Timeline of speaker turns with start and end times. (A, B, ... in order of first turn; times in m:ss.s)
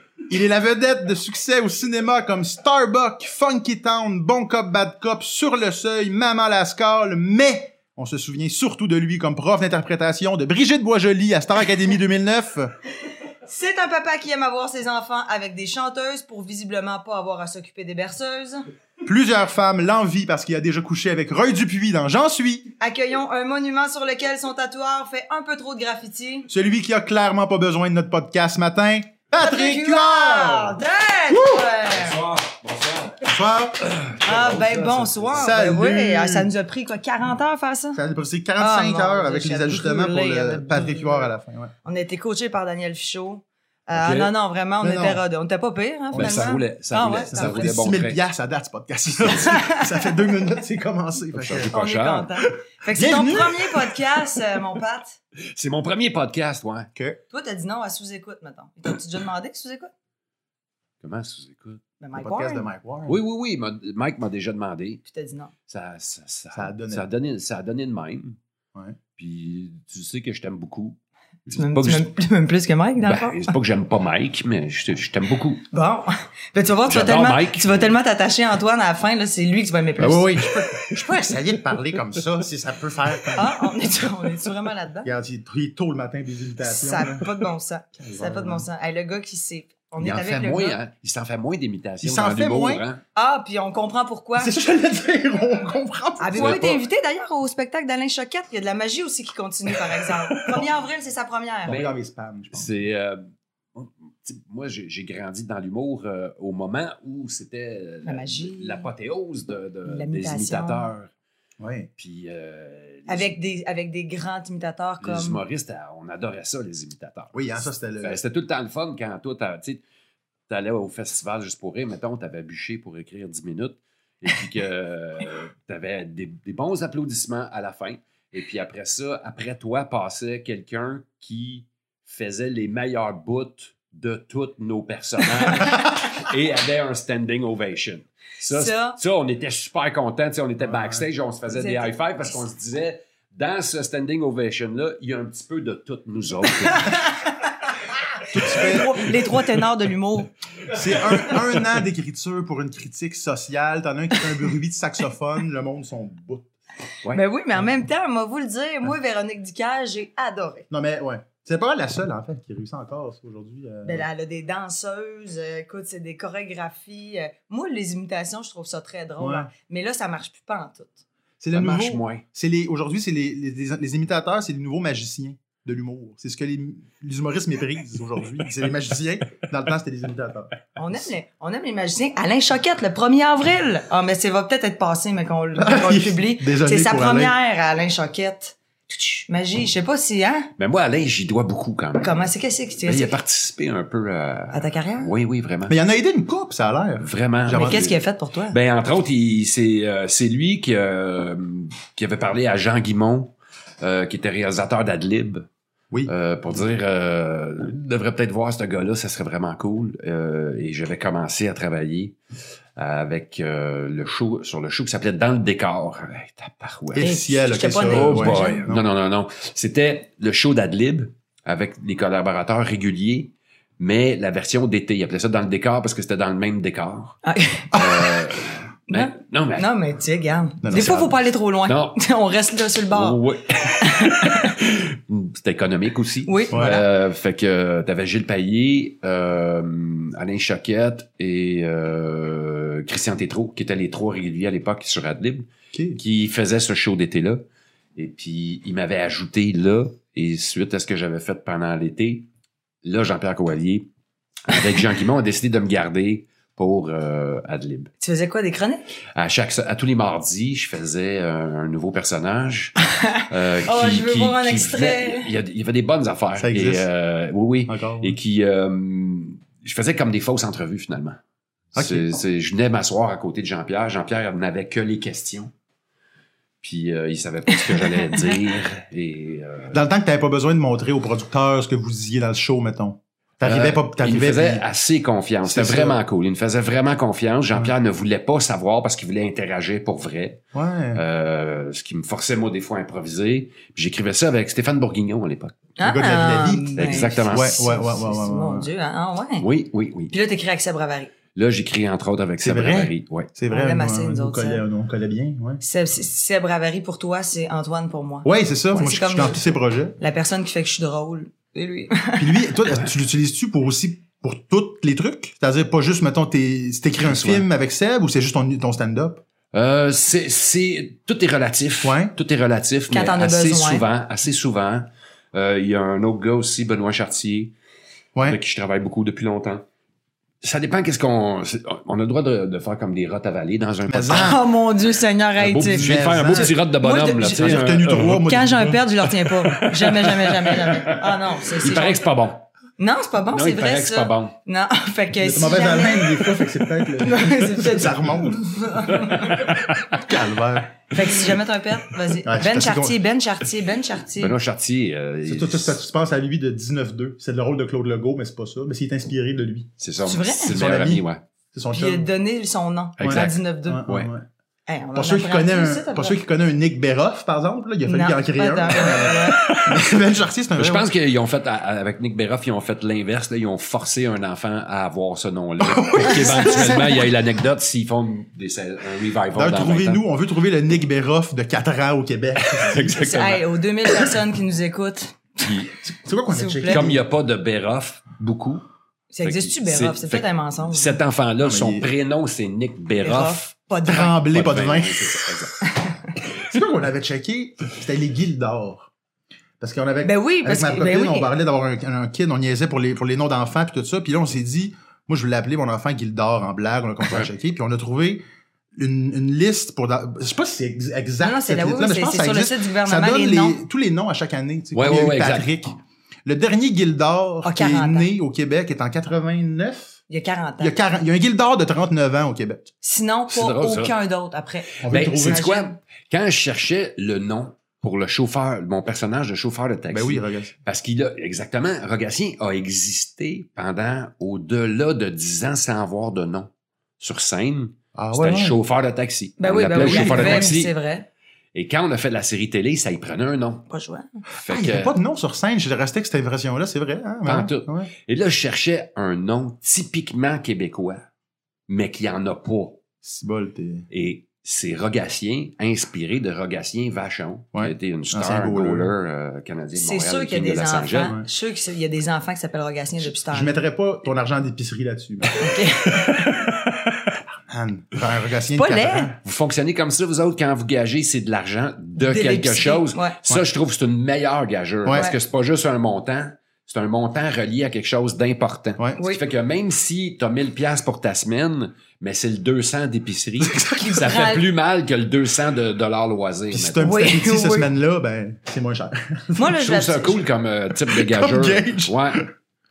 0:00.3-0:12.7 A
0:13.4-0:18.6 B
0:19.0-0:22.7 A
0:22.8-0:26.5 B
0:26.5-0:30.8 A
0:29.3-0:32.2 B
0:31.3-0:31.7 A
0:31.9-0:33.3 C
0:33.2-0:33.9 A
0:33.8-0:35.4 C
0:34.2-0:38.0 B
0:35.3-0:36.5 A
0:37.9-0:41.7 A
0:38.6-0:41.3 B
0:41.8-0:47.7 B
0:43.9-0:44.3 C
0:44.8-0:45.2 A
0:46.1-0:46.5 A
0:46.1-0:48.2 C
0:47.3-0:51.7 A
0:49.2-0:49.5 C
0:49.2-0:50.3 B
0:51.3-0:52.3 C
0:51.5-0:55.2 B
0:52.9-0:54.4 A
0:55.5-0:56.9 C
0:57.3-0:59.9 B
1:01.0-1:01.8 C
1:02.0-1:02.6 B
1:02.1-1:03.2 A
1:03.1-1:05.0 C
1:05.0-1:05.5 B
1:05.7-1:08.4 C
1:06.5-1:07.0 A
1:09.2-1:12.1 C
1:11.5-1:13.5 B
1:13.0-1:15.6 C
1:15.7-1:20.4 B
1:16.8-1:17.9 C
1:20.0-1:23.7 A
1:20.7-1:21.0 C
1:23.3-1:25.1 B
1:25.0-1:27.3 A
1:26.6-1:30.8 B
1:28.0-1:28.6 A
1:30.0-1:33.0 C
1:32.0-1:32.8 A
1:33.1-1:34.6 B
1:34.4-1:36.6 A
1:36.2-1:41.8 B
1:36.3-1:36.8 C
1:40.0-1:40.6 A
1:41.6-1:42.7 A
1:41.7-1:41.9 C
1:42.5-1:43.2 C
1:43.7-1:51.1 C
1:48.0-1:48.9 B
1:49.8-1:50.9 B
1:51.6-1:51.9 A
1:52.0-1:53.4 C
1:53.1-1:55.4 B
1:55.0-1:59.8 C
1:57.3-1:58.2 A
2:00.5-2:27.1 C
2:18.5-2:19.0 B
2:20.6-2:21.0 A
2:21.6-2:22.4 B
2:26.6-2:27.5 B
2:28.3-2:29.4 A
2:28.4-2:30.3 B
2:30.7-2:31.4 C
2:30.7-2:36.5 A
2:37.1-2:40.6 B
2:40.7-2:44.0 A
2:43.8-2:51.0 B
2:49.2-2:49.5 A
2:51.4-3:00.6 A
2:51.5-2:52.2 C
3:00.8-3:10.5 B
3:05.6-3:07.3 A
3:10.6-3:12.2 C
3:12.0-3:13.2 B
3:12.8-3:15.8 C
3:14.5-3:15.1 B
3:15.7-3:17.9 A
3:17.0-3:25.5 C
3:17.5-3:18.6 B
3:26.0-3:32.2 C
3:32.8-3:37.1 C
3:36.9-3:38.8 A
3:37.0-3:38.6 B
3:37.9-3:47.2 C
3:47.2-3:48.0 B
3:47.7-3:49.7 C
3:48.9-3:54.5 B
3:50.6-3:51.1 A
3:51.6-3:52.0 C
3:52.9-4:07.4 C
3:56.3-3:56.8 B
3:56.5-3:56.8 A
4:05.7-4:06.0 A
4:08.0-4:12.3 C
4:12.8-4:13.9 C
4:14.5-4:17.9 C
4:18.0-4:18.8 B
4:19.1-4:22.8 C
4:22.9-4:25.3 B
4:23.3-4:31.2 C
4:26.4-4:26.9 A
4:27.6-4:28.2 A
4:31.7-4:35.5 C
4:31.7-4:32.2 A
4:36.6-4:39.8 C
4:37.6-4:38.2 B
4:39.7-4:44.6 A
4:43.4-4:50.4 C
4:45.4-4:46.0 A
4:50.5-4:51.0 A
4:50.9-4:55.6 C
4:55.8-4:59.5 B
4:55.8-4:58.7 A
4:56.8-4:57.5 C
4:59.4-5:00.1 C
5:00.1-5:01.1 B
5:01.3-5:03.3 C
5:02.4-5:05.6 A
5:03.5-5:04.6 B
5:05.6-5:12.5 B
5:08.2-5:10.0 A
5:12.2-5:19.2 A
5:17.0-5:17.5 C
5:19.5-5:27.5 C
5:21.8-5:22.1 A
5:22.9-5:23.8 B
5:28.2-5:29.6 C
5:30.4-5:34.4 C
5:33.9-5:34.4 A
5:34.1-5:42.0 B
5:35.4-5:38.3 C
5:35.7-5:36.6 A
5:37.2-5:38.8 A
5:39.2-5:42.5 C
5:42.8-5:46.4 B
5:43.3-5:44.3 C
5:45.2-5:50.8 A
5:47.0-5:49.5 B
5:49.4-5:50.0 C
5:50.9-5:54.4 B
5:52.2-5:53.0 A
5:54.2-5:55.8 C
5:55.2-5:59.7 A
5:59.8-6:01.2 C
6:00.0-6:00.6 B
6:00.4-6:02.1 A
6:01.7-6:03.9 B
6:03.0-6:04.1 C
6:03.0-6:04.2 A
6:04.7-6:06.2 B
6:04.9-6:10.9 A
6:07.8-6:09.4 B
6:09.4-6:10.0 C
6:10.5-6:20.0 C
6:15.6-6:17.0 A
6:16.0-6:16.9 B
6:19.3-6:23.1 A
6:22.4-6:23.4 C
6:23.0-6:25.5 B
6:25.4-6:25.7 C
6:25.8-6:27.0 A
6:26.3-6:26.9 B
6:26.7-6:28.6 C
6:29.1-6:31.0 B
6:29.2-6:33.5 C
6:31.4-6:31.9 A
6:33.0-6:34.2 B
6:33.9-6:35.3 A
6:34.1-6:35.7 C
6:35.7-6:36.0 B
6:36.4-6:38.9 A
6:39.6-6:48.2 A
6:40.0-6:41.3 B
6:48.8-7:00.0 A
6:51.2-6:53.6 B
6:54.7-6:55.5 C
6:57.4-6:58.1 B
7:00.1-7:00.7 B
7:00.6-7:02.6 A
7:02.8-7:05.8 B
7:03.3-7:03.9 C
7:04.8-7:05.4 A
7:04.8-7:20.7 C
7:09.9-7:10.5 A
7:17.9-7:18.6 A
7:19.4-7:21.1 B
7:19.7-7:20.6 A
7:21.5-7:23.7 C
7:23.7-7:24.2 B
7:24.4-7:24.9 C
7:24.4-7:27.9 A
7:27.2-7:31.0 C
7:31.7-7:32.8 C
7:33.0-7:33.8 A
7:33.9-7:41.1 C
7:37.5-7:38.9 A
7:39.7-7:43.5 B
7:41.0-7:41.3 A
7:43.3-7:45.4 A
7:45.4-7:46.5 B
7:46.2-7:47.0 C
7:47.3-7:49.2 A
7:48.5-7:49.1 B
7:49.2-8:07.0 C
7:52.0-7:53.2 B
7:54.8-7:55.1 A
7:59.0-7:59.2 B
8:03.4-8:04.0 A
8:03.8-8:04.4 B
8:06.5-8:09.4 A
8:06.8-8:07.7 B
8:09.3-8:10.2 B
8:09.5-8:12.3 C
8:10.8-8:12.2 A